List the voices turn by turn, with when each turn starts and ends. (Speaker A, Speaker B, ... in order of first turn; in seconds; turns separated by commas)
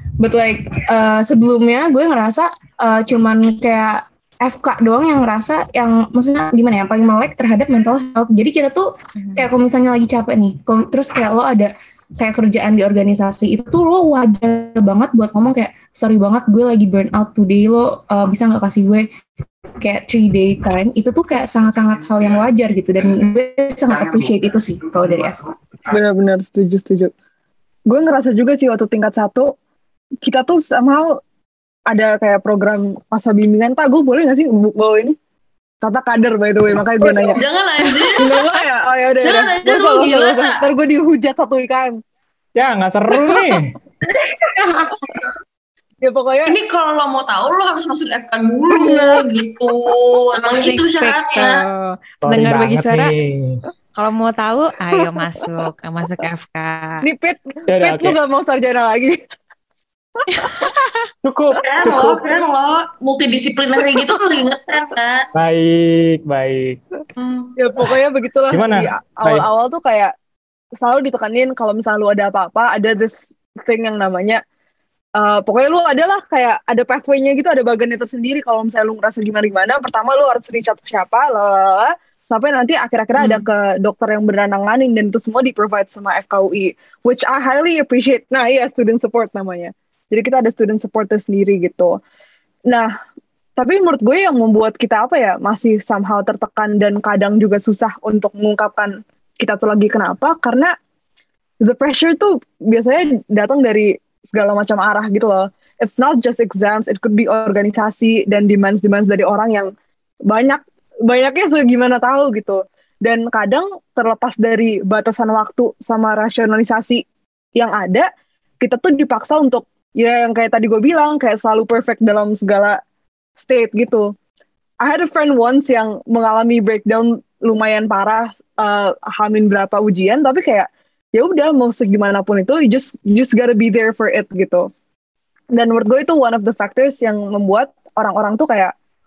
Speaker A: 0.2-19.1, Speaker B: 9.2-9.5, Speaker A: 19.8-25.5, Speaker C: 25.9-27.1, Speaker C: 27.9-29.5, Speaker C: 30.2-31.2, Speaker C: 31.9-35.2, Speaker C: 35.8-42.0, Speaker D: 37.0-38.5, Speaker D: 39.2-40.6, Speaker E: 42.6-43.7, Speaker A: 44.6-45.1, Speaker C: 46.0-46.6, Speaker D: 46.5-51.7, Speaker C: 48.7-49.3, Speaker B: 50.6-53.1, Speaker E: 52.2-53.6, Speaker B: 54.0-57.1, Speaker C: 57.0-59.2, Speaker E: 57.7-58.2, Speaker C: 60.2-60.7, Speaker B: 60.3-61.0, Speaker E: 61.2-61.6, Speaker D: 61.6-65.3, Speaker C: 61.9-62.2, Speaker E: 65.3-66.8, Speaker D: 67.2-67.5, Speaker C: 67.6-70.1, Speaker E: 68.5-69.5, Speaker C: 70.8-74.4, Speaker C: 75.2-92.0, Speaker C: 93.6-100.7, Speaker C: 101.6-109.7, Speaker C: 110.3-117.0, Speaker C: 117.5-118.1, Speaker C: 118.6-122.8, Speaker C: 123.4-124.1, Speaker C: 124.8-134.7, Speaker C: 135.6-138.7